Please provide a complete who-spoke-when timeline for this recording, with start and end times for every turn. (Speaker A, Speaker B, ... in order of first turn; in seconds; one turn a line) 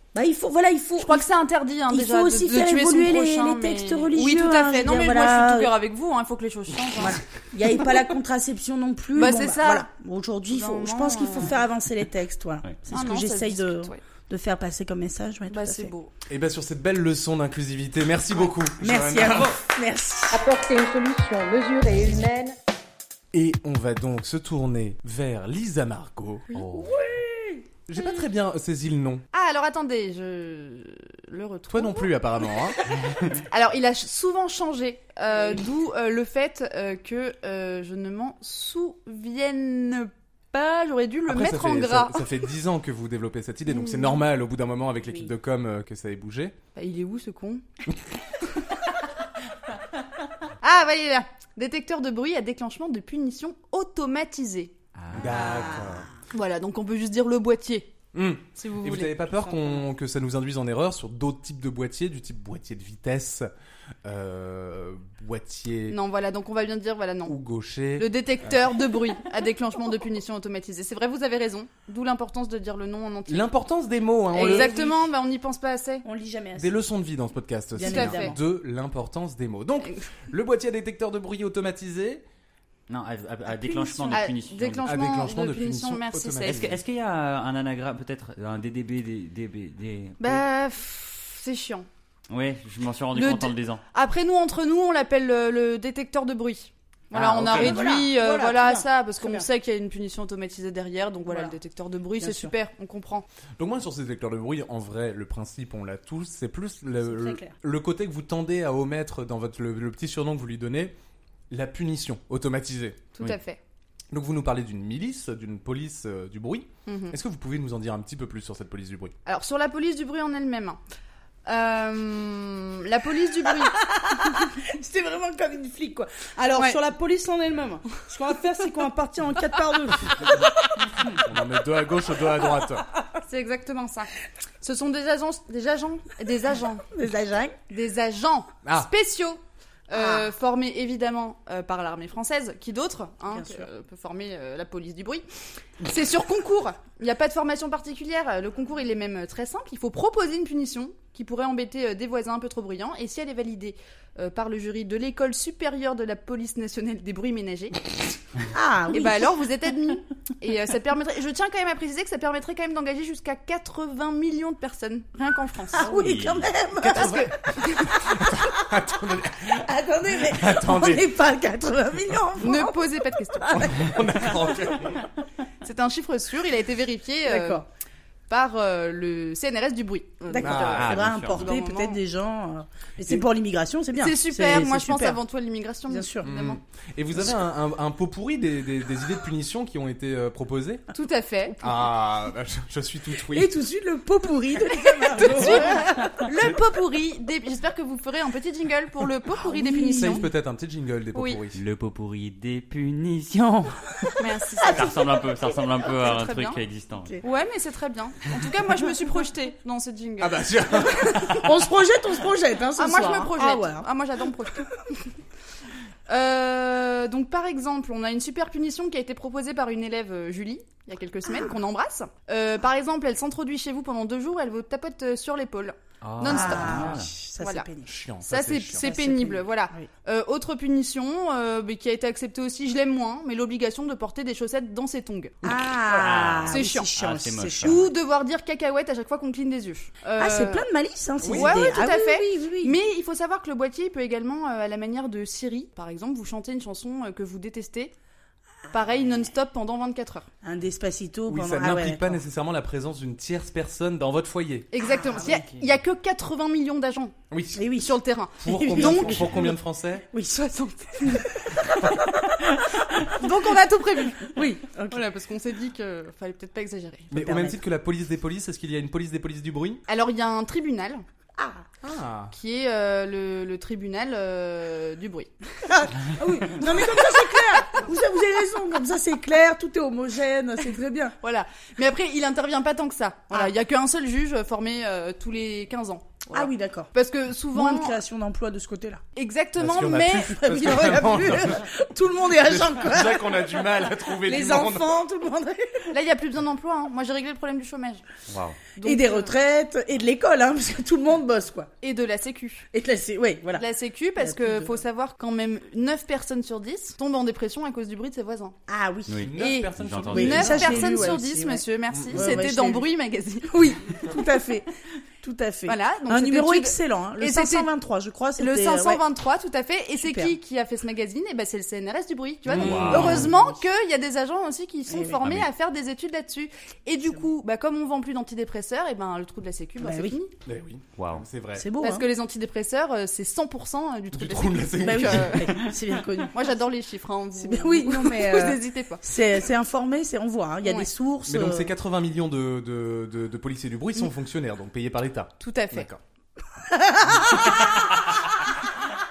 Speaker A: 0.1-1.3
Speaker B: 1.0-7.2
Speaker A: 1.9-5.7
Speaker A: 7.0-15.9
Speaker B: 9.2-9.9
Speaker B: 10.5-11.6
Speaker B: 12.9-14.0
Speaker B: 15.5-16.1
Speaker C: 16.3-19.6
Speaker A: 18.8-20.4
Speaker D: 20.3-22.5
Speaker C: 23.3-26.7
Speaker A: 26.5-27.7
Speaker E: 26.5-26.9
Speaker C: 27.9-29.2
Speaker B: 29.3-32.1
Speaker C: 31.7-32.8
Speaker B: 33.4-42.3
Speaker C: 41.3-46.5
Speaker B: 43.7-44.2
Speaker B: 46.8-47.6
Speaker B: 50.6-54.7
Speaker E: 55.0-55.4
Speaker C: 55.1-56.1
Speaker A: 55.2-56.1
Speaker B: 56.3-57.9
Speaker C: 58.1-63.5
Speaker B: 58.6-59.3
Speaker C: 64.0-66.0
Speaker B: 65.9-67.4
Speaker C: 67.2-68.1
Speaker B: 68.0-73.5
Speaker C: 73.3-74.8
Speaker B: 74.3-76.0
Speaker A: 74.3-75.0
Speaker A: 76.0-76.8
Speaker C: 76.6-82.2
Speaker B: 77.8-78.4
Speaker A: 77.8-78.4
Speaker B: 79.8-80.1
Speaker E: 82.9-84.9
Speaker A: 83.7-84.2
Speaker B: 84.0-86.6
Speaker C: 84.8-86.8
Speaker E: 86.4-90.4
Speaker B: 90.2-91.9
Speaker E: 92.3-93.8
Speaker B: 93.1-103.2
Speaker C: 97.1-97.9
Speaker A: 97.4-99.5
Speaker A: 101.3-101.6
Speaker A: 102.2-102.5
Speaker C: 103.6-111.0
Speaker A: 107.0-107.5
Speaker C: 111.5-113.1
Speaker B: 113.2-113.6
Speaker C: 114.1-119.1
Speaker B: 116.9-117.2
Speaker B: 119.3-120.8
Speaker B: 121.5-123.8
Speaker A: 123.8-130.8
Speaker C: 131.1-132.8
Speaker B: 133.2-134.1
Speaker B: 134.6-136.9
Speaker A: 136.9-137.6
Speaker B: 137.7-145.2
Speaker A: 139.9-140.3
Speaker A: 143.3-143.7
Speaker B: 145.8-157.9
Speaker A: 158.5-159.3
Speaker B: 158.9-165.9
Speaker A: 165.8-168.4
Speaker E: 165.8-166.5
Speaker C: 166.8-171.2
Speaker A: 169.4-174.5
Speaker B: 172.4-173.7
Speaker C: 173.5-175.1
Speaker B: 175.6-177.7
Speaker A: 177.3-177.6
Speaker B: 178.3-182.0
Speaker A: 180.2-185.2
Speaker C: 180.3-181.1
Speaker E: 180.7-181.5
Speaker B: 184.0-186.6
Speaker A: 185.9-186.3
Speaker C: 186.2-190.9
Speaker B: 190.9-191.6
Speaker C: 191.6-193.5
Speaker A: 193.3-196.2
Speaker B: 194.9-200.3
Speaker C: 195.5-195.7
Speaker A: 199.3-200.3
Speaker C: 200.0-201.6
Speaker B: 201.1-201.4
Speaker E: 201.6-203.8
Speaker B: 204.2-205.2
Speaker A: 204.6-205.0
Speaker E: 204.6-207.2
Speaker B: 205.8-206.6
Speaker B: 207.2-210.4
Speaker C: 210.2-211.7
Speaker A: 211.0-213.9
Speaker B: 212.8-214.8
Speaker B: 216.1-227.7
Speaker E: 226.0-227.1
Speaker A: 226.3-227.9
Speaker C: 227.8-228.9
Speaker B: 228.2-235.4
Speaker A: 228.8-229.9
Speaker A: 235.4-237.8
Speaker E: 236.0-237.8
Speaker B: 236.5-236.9
Speaker B: 237.6-240.7
Speaker A: 240.2-242.8
Speaker C: 241.2-241.6
Speaker B: 241.2-247.9
Speaker B: 248.7-250.3
Speaker A: 250.4-252.2
Speaker C: 251.3-254.7
Speaker B: 254.7-257.2
Speaker A: 254.8-255.4
Speaker C: 257.3-257.6
Speaker A: 257.6-259.6
Speaker B: 257.8-259.6
Speaker C: 258.4-260.1
Speaker A: 260.1-265.0
Speaker B: 260.4-261.2
Speaker B: 263.1-267.1
Speaker C: 267.1-269.8
Speaker A: 267.1-267.6
Speaker B: 269.9-271.0
Speaker A: 271.4-271.6
Speaker C: 271.8-272.3
Speaker B: 272.3-275.3
Speaker A: 275.6-281.1
Speaker B: 276.6-277.0
Speaker B: 281.2-288.0
Speaker A: 286.3-286.9
Speaker A: 287.5-289.0
Speaker B: 289.2-291.5
Speaker C: 289.6-291.7
Speaker A: 290.3-295.9
Speaker C: 292.2-295.0
Speaker B: 295.9-298.1
Speaker E: 298.3-298.6
Speaker B: 298.8-299.4
Speaker A: 298.8-301.7
Speaker B: 301.8-302.7
Speaker A: 302.7-303.6
Speaker B: 303.5-308.6
Speaker A: 304.2-304.7
Speaker A: 308.7-309.3
Speaker E: 309.1-310.8
Speaker C: 309.2-311.1
Speaker B: 309.4-314.1
Speaker A: 310.1-312.9
Speaker C: 311.9-312.3
Speaker A: 313.5-319.0
Speaker B: 315.7-317.7
Speaker B: 318.4-330.3
Speaker A: 320.0-320.4
Speaker E: 322.5-323.3
Speaker A: 322.5-323.6
Speaker C: 322.5-323.3
Speaker A: 324.9-325.2
Speaker E: 325.2-325.5
Speaker A: 329.8-330.2
Speaker C: 330.4-331.7
Speaker E: 331.0-331.3
Speaker A: 331.6-332.1
Speaker B: 331.8-335.8
Speaker C: 334.1-335.5
Speaker A: 334.8-336.5
Speaker B: 336.3-339.0
Speaker A: 337.4-341.7
Speaker B: 340.6-340.9
Speaker C: 341.3-346.0
Speaker B: 345.4-345.9
Speaker A: 346.7-348.0